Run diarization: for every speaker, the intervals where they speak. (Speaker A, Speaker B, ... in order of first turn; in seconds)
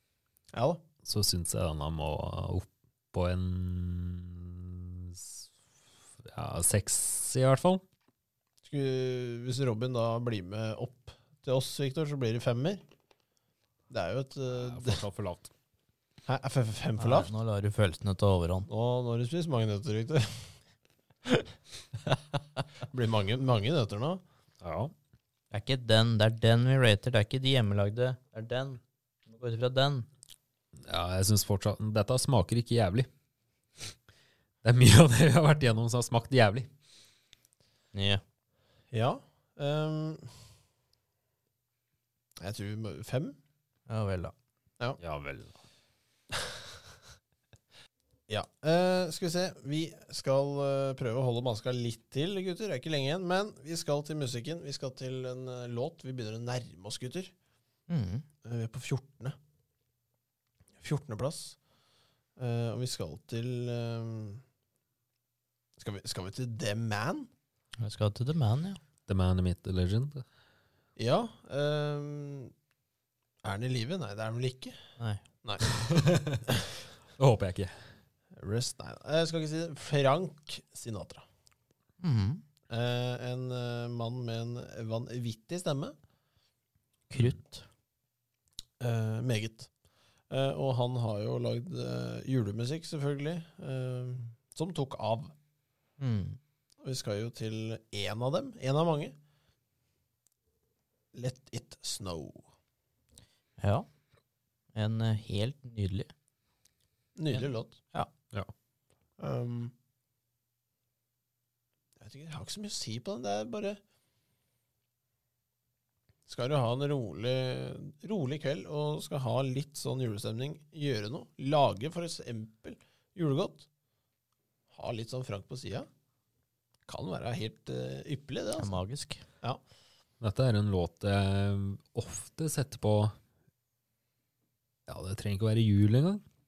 Speaker A: 0.5-0.8, 8.6-12.8, 13.9-15.0, 16.2-17.3, 18.7-20.5, 22.9-24.2, 38.9-40.3, 42.4-43.4, 48.3-57.3, 58.4-59.3, 60.8-61.6, 62.4-64.4, 65.8-67.3, 71.0-72.5, 73.4-74.8, 78.3-81.2, 82.7-85.9, 88.8-89.7, 90.3-95.3, 96.8-99.1, 101.1-102.5, 107.2-107.8, 109.2-109.7, 112.0-113.8, 116.3-123.7, 124.7-125.9, 126.9-128.8
Speaker B: 1.0-5.4, 6.3-7.8, 14.5-15.5, 24.6-24.9, 30.9-33.1, 34.6-36.7, 45.0-45.5, 69.1-70.2, 76.0-76.4, 77.2-77.7, 130.2-133.1, 134.9-136.2
Speaker C: 17.0-18.7, 25.5-30.1, 37.9-38.2, 43.9-44.3, 57.9-58.2, 67.8-68.8, 75.0-75.2, 82.0-82.4, 87.1-87.6, 96.0-96.4, 103.6-103.9, 104.7-106.1, 107.3-108.1, 128.6-129.2